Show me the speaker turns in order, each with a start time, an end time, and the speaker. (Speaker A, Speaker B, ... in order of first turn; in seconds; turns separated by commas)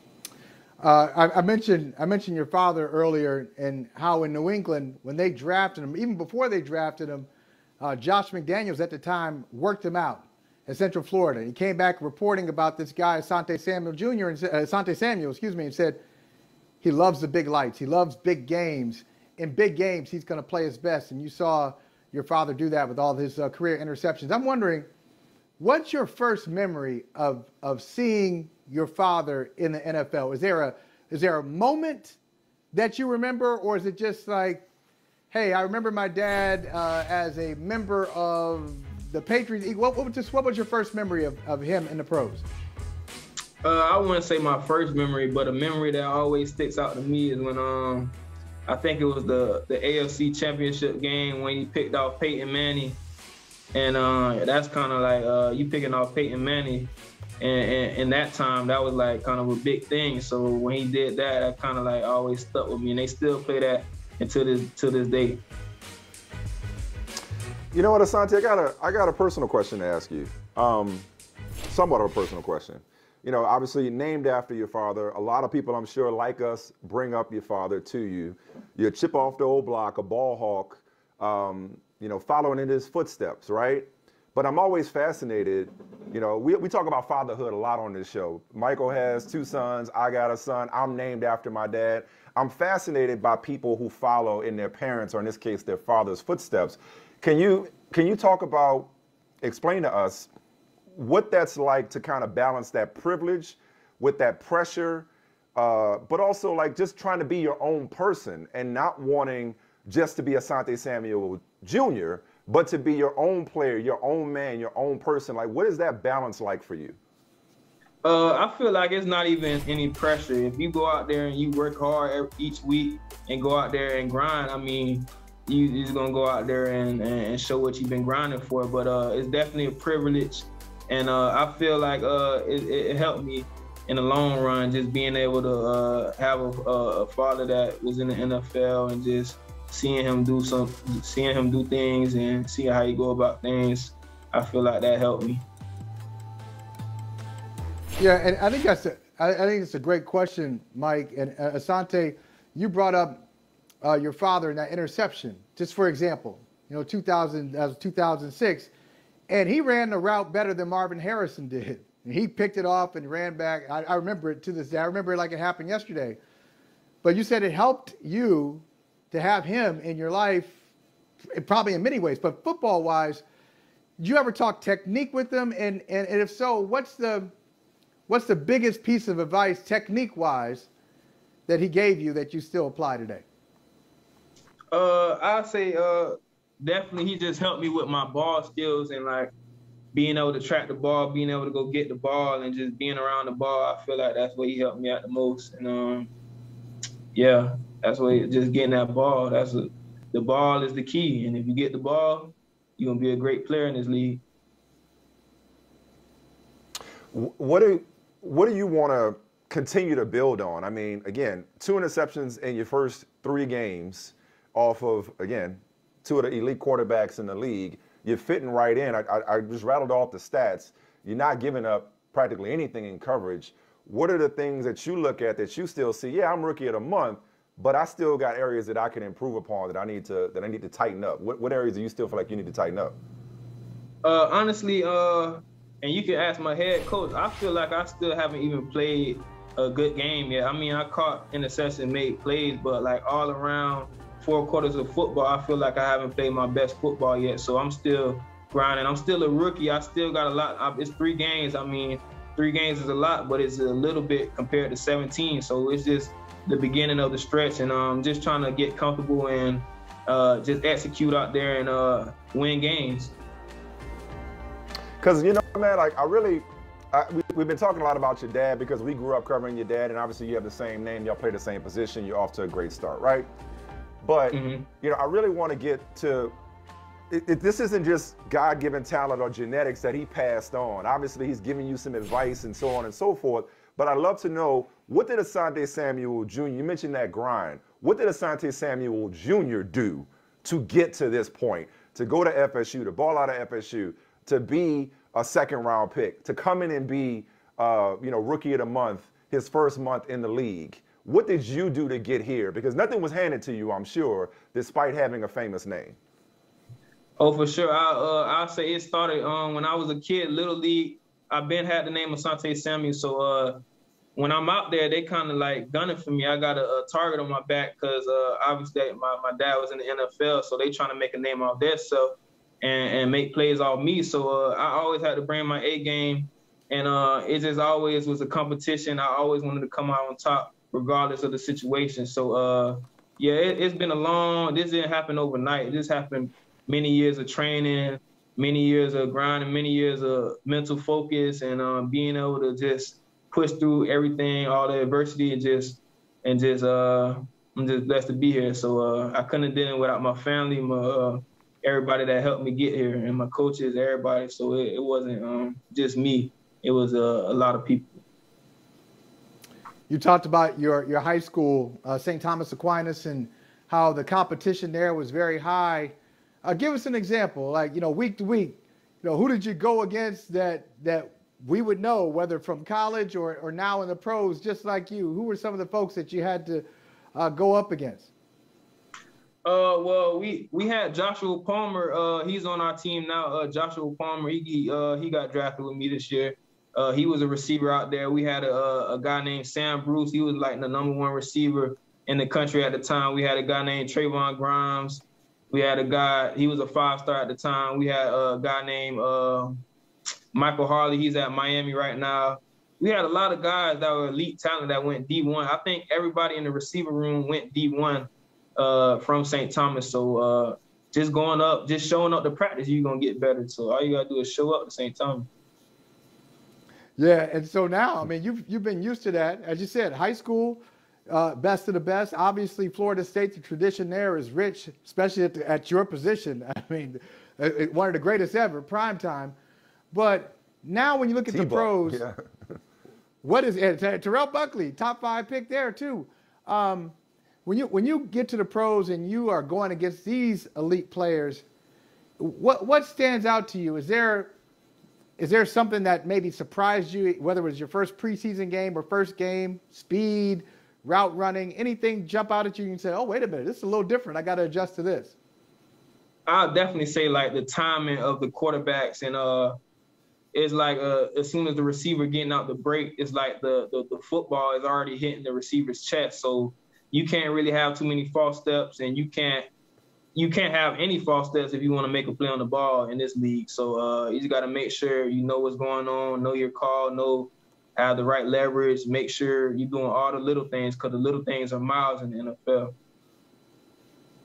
Speaker A: 0.8-7.3, Speaker A: 7.8-16.0, Speaker A: 16.8-24.9, Speaker A: 25.6-32.2, Speaker A: 32.7-34.6, Speaker A: 35.3-42.5, Speaker B: 43.6-48.1, Speaker B: 48.7-53.0, Speaker B: 53.7-65.4, Speaker C: 67.7-71.1, Speaker C: 71.7-98.9, Speaker C: 99.4-100.3, Speaker C: 100.9-117.0, Speaker B: 118.0-145.4, Speaker A: 148.0-153.2, Speaker A: 153.8-158.7, Speaker A: 159.3-166.2, Speaker A: 167.0-170.6, Speaker A: 171.3-173.2, Speaker A: 174.0-177.3, Speaker A: 178.1-180.7, Speaker A: 181.5-183.2, Speaker B: 184.7-189.3, Speaker B: 189.9-196.1, Speaker B: 197.1-204.2, Speaker C: 207.1-232.9, Speaker B: 234.0-263.1, Speaker C: 265.0-273.3, Speaker C: 274.0-276.3, Speaker B: 274.3-274.7, Speaker C: 277.1-306.0, Speaker B: 307.2-313.6, Speaker B: 314.1-358.0, Speaker A: 359.9-378.1, Speaker B: 379.4-399.6, Speaker B: 400.3-415.3, Speaker A: 417.0-429.3, Speaker A: 429.9-432.0, Speaker C: 431.3-432.1, Speaker A: 433.2-436.9, Speaker A: 437.4-441.4, Speaker A: 442.2-444.3, Speaker A: 445.2-455.1, Speaker B: 456.3-459.5, Speaker B: 460.3-469.5, Speaker B: 470.1-482.7